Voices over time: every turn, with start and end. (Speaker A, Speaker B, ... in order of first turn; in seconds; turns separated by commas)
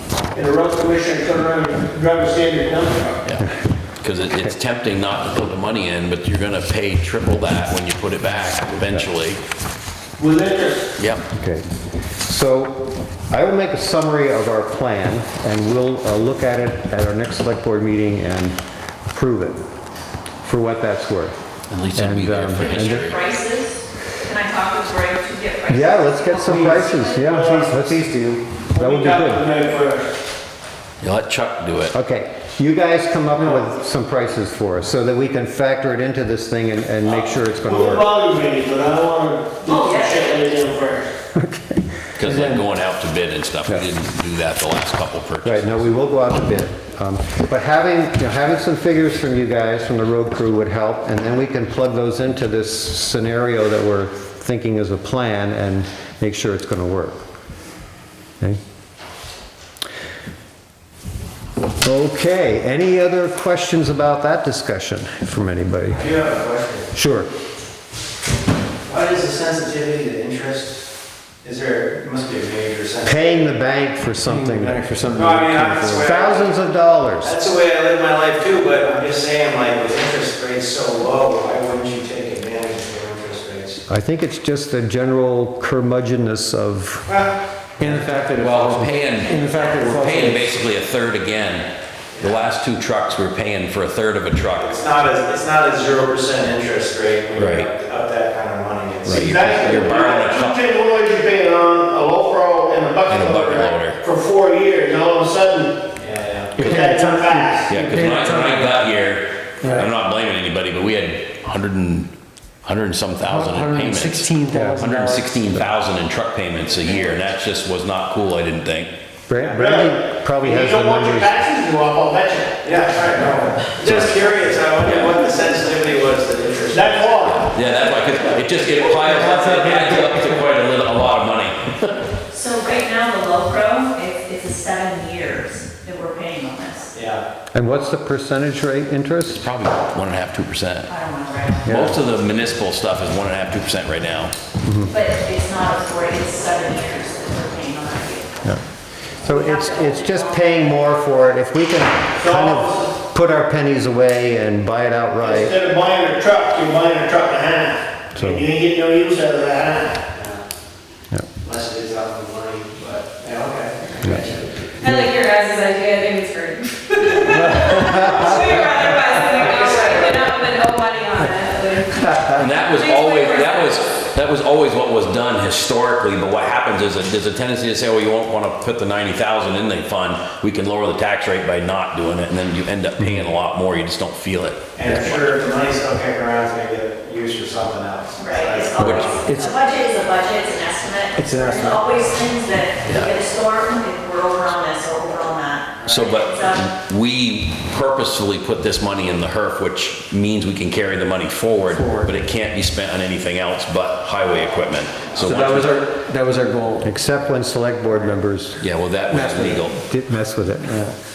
Speaker A: 0.3-3.2, Speaker B: 4.0-9.4, Speaker A: 10.2-10.9, Speaker B: 11.0-11.2, Speaker C: 11.3-11.6, Speaker C: 12.2-19.6, Speaker C: 20.4-21.4, Speaker B: 21.7-23.2, Speaker C: 21.9-23.0, Speaker D: 22.5-27.3, Speaker C: 25.7-29.4, Speaker A: 26.5-28.0, Speaker A: 28.7-30.2, Speaker B: 31.0-31.9, Speaker C: 31.9-38.1, Speaker A: 33.4-33.6, Speaker A: 37.0-41.1, Speaker D: 39.6-40.5, Speaker C: 41.3-41.9, Speaker B: 42.2-45.8, Speaker E: 42.3-42.6, Speaker C: 45.4-57.2, Speaker C: 61.8-66.0, Speaker F: 65.9-66.9, Speaker C: 66.9-67.3, Speaker F: 68.8-70.9, Speaker F: 71.4-73.4, Speaker C: 73.0-74.9, Speaker E: 74.2-75.9, Speaker F: 75.1-76.6, Speaker C: 75.7-77.4, Speaker F: 77.2-83.8, Speaker C: 83.9-87.1, Speaker F: 87.1-87.3, Speaker E: 87.8-90.6, Speaker B: 88.4-94.7, Speaker F: 94.6-99.8, Speaker B: 97.3-97.7, Speaker B: 99.0-100.6, Speaker A: 99.1-105.8, Speaker B: 103.1-104.0, Speaker F: 106.0-106.7, Speaker E: 106.5-108.9, Speaker A: 106.7-107.6, Speaker B: 107.7-112.1, Speaker E: 109.6-109.9, Speaker B: 112.6-118.9, Speaker E: 113.2-115.3, Speaker C: 119.3-121.4, Speaker A: 119.6-122.7, Speaker F: 122.6-127.5, Speaker B: 124.8-125.2, Speaker A: 126.7-127.4, Speaker B: 127.3-132.0, Speaker F: 128.3-128.8, Speaker E: 128.9-130.4, Speaker D: 132.3-136.9, Speaker F: 136.9-137.2, Speaker C: 137.5-139.4, Speaker B: 139.3-140.9, Speaker D: 140.9-141.7, Speaker C: 141.6-142.0, Speaker B: 141.6-144.3, Speaker C: 144.6-144.9, Speaker D: 144.9-148.4, Speaker D: 149.2-150.8, Speaker C: 149.2-155.5, Speaker A: 152.2-153.0, Speaker A: 155.2-160.0, Speaker C: 158.1-158.4, Speaker F: 160.1-160.4, Speaker F: 161.4-164.7, Speaker G: 164.8-172.1, Speaker C: 164.8-165.1, Speaker C: 167.6-168.8, Speaker F: 169.6-170.0, Speaker B: 172.3-185.2, Speaker G: 172.6-173.8, Speaker C: 183.0-183.3, Speaker F: 184.8-189.2, Speaker E: 184.9-185.3, Speaker D: 188.2-196.6, Speaker B: 188.8-189.1, Speaker E: 189.2-189.6, Speaker E: 191.2-191.8, Speaker B: 192.8-193.1, Speaker B: 195.9-205.8, Speaker E: 201.7-202.1, Speaker E: 205.2-206.9, Speaker C: 206.8-208.6, Speaker B: 208.6-209.8, Speaker E: 209.1-209.7, Speaker C: 209.8-210.9